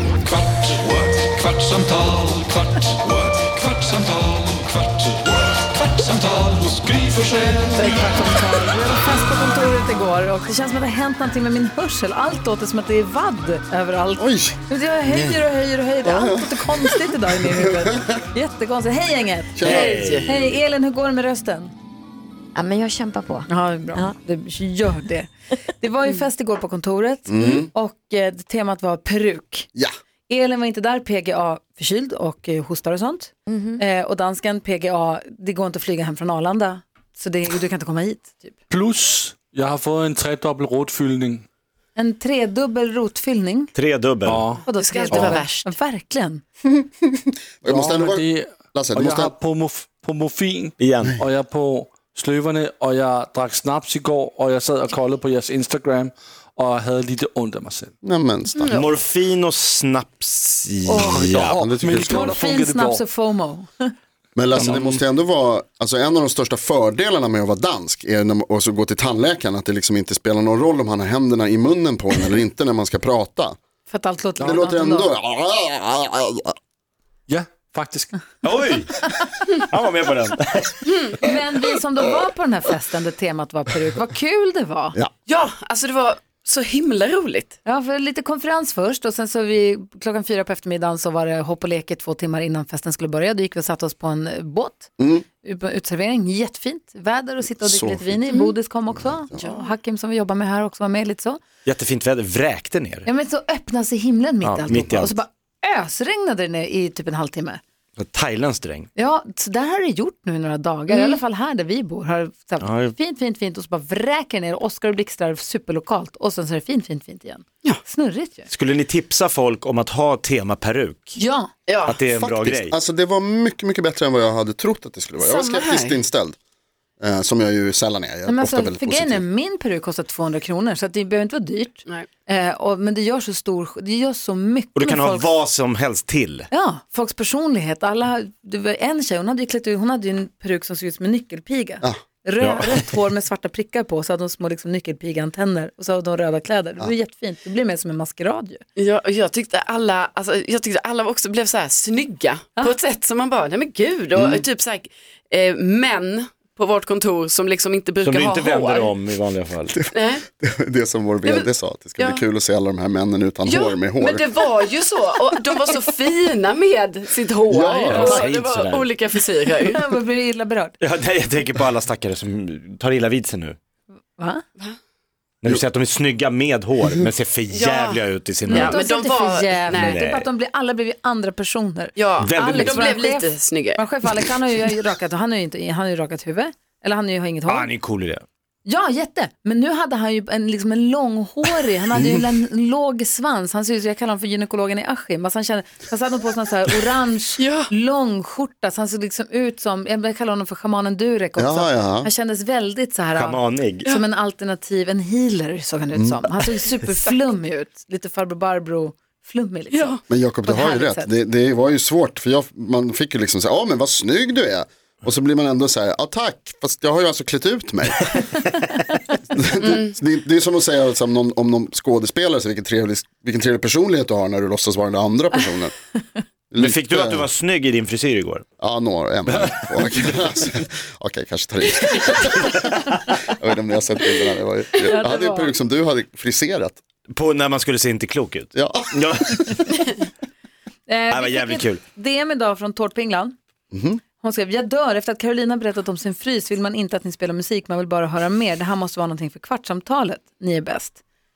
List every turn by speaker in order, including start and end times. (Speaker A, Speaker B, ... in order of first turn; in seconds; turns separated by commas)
Speaker A: 0.7-2.1, Speaker B: 2.1-2.7, Speaker A: 3.0-4.5, Speaker B: 4.2-5.0, Speaker A: 6.0-6.8, Speaker B: 6.2-7.8, Speaker C: 7.7-19.7, Speaker D: 14.2-14.6, Speaker E: 15.1-15.4, Speaker D: 16.0-18.2, Speaker D: 19.6-20.1, Speaker E: 19.6-20.6, Speaker F: 19.6-20.3, Speaker C: 20.2-21.7, Speaker G: 22.6-24.2, Speaker C: 23.5-29.7, Speaker D: 27.3-27.7, Speaker C: 30.3-38.6, Speaker G: 33.5-33.8, Speaker B: 38.7-41.5, Speaker C: 42.0-43.7, Speaker E: 43.7-44.5, Speaker B: 44.2-44.6, Speaker C: 44.6-46.4, Speaker F: 44.7-45.7, Speaker D: 45.1-45.4, Speaker D: 46.7-49.3, Speaker B: 47.6-57.9, Speaker E: 50.8-51.2, Speaker D: 58.0-58.7, Speaker F: 58.6-59.0, Speaker E: 58.7-61.6, Speaker C: 60.9-61.3, Speaker B: 61.0-63.0, Speaker D: 61.0-62.4, Speaker C: 61.9-63.9, Speaker D: 64.3-73.6, Speaker B: 64.5-65.0, Speaker C: 73.9-75.1, Speaker B: 74.4-74.7, Speaker D: 74.4-76.5, Speaker B: 77.3-78.2, Speaker E: 78.4-81.0, Speaker F: 80.9-81.2, Speaker C: 81.2-85.0, Speaker F: 85.3-87.6, Speaker C: 87.7-94.9, Speaker D: 95.0-95.2, Speaker C: 95.4-101.4, Speaker D: 97.5-99.5, Speaker F: 99.4-99.7, Speaker E: 101.7-103.1, Speaker C: 103.0-107.6, Speaker E: 104.4-105.2, Speaker E: 108.0-108.9, Speaker C: 109.0-118.5, Speaker F: 110.9-111.2, Speaker E: 112.6-112.9, Speaker E: 118.5-121.2, Speaker C: 121.2-121.5, Speaker F: 121.7-122.0, Speaker E: 121.8-122.8, Speaker D: 122.2-126.4, Speaker F: 125.4-126.0, Speaker D: 127.0-129.2, Speaker C: 128.2-135.3, Speaker E: 134.8-136.5, Speaker C: 136.5-148.6, Speaker E: 142.4-142.7, Speaker F: 148.8-158.9, Speaker D: 154.2-154.4, Speaker E: 158.0-159.8, Speaker D: 159.7-164.5, Speaker F: 159.9-160.2, Speaker F: 161.2-162.2, Speaker F: 163.4-169.8, Speaker D: 167.5-168.3, Speaker E: 167.9-168.9, Speaker C: 169.6-170.8, Speaker E: 170.8-173.6, Speaker C: 174.2-174.4, Speaker E: 175.4-178.7, Speaker F: 177.5-180.1, Speaker C: 178.5-187.7, Speaker E: 179.8-180.2, Speaker F: 181.9-183.8, Speaker E: 182.2-182.9, Speaker E: 187.5-188.2, Speaker C: 188.7-211.1, Speaker D: 191.9-192.2, Speaker F: 197.4-197.7, Speaker D: 201.4-202.1, Speaker E: 203.2-203.9, Speaker D: 205.9-206.3, Speaker F: 209.7-210.0, Speaker D: 210.1-218.3, Speaker D: 219.3-225.7, Speaker F: 219.6-219.9, Speaker D: 226.5-227.3, Speaker E: 226.6-228.4, Speaker D: 228.6-236.8, Speaker E: 229.3-230.1, Speaker E: 232.9-233.2, Speaker C: 234.8-235.5, Speaker E: 237.1-239.6, Speaker D: 238.6-239.6, Speaker C: 240.9-243.3, Speaker E: 241.1-241.8, Speaker D: 243.7-244.0, Speaker C: 244.2-251.0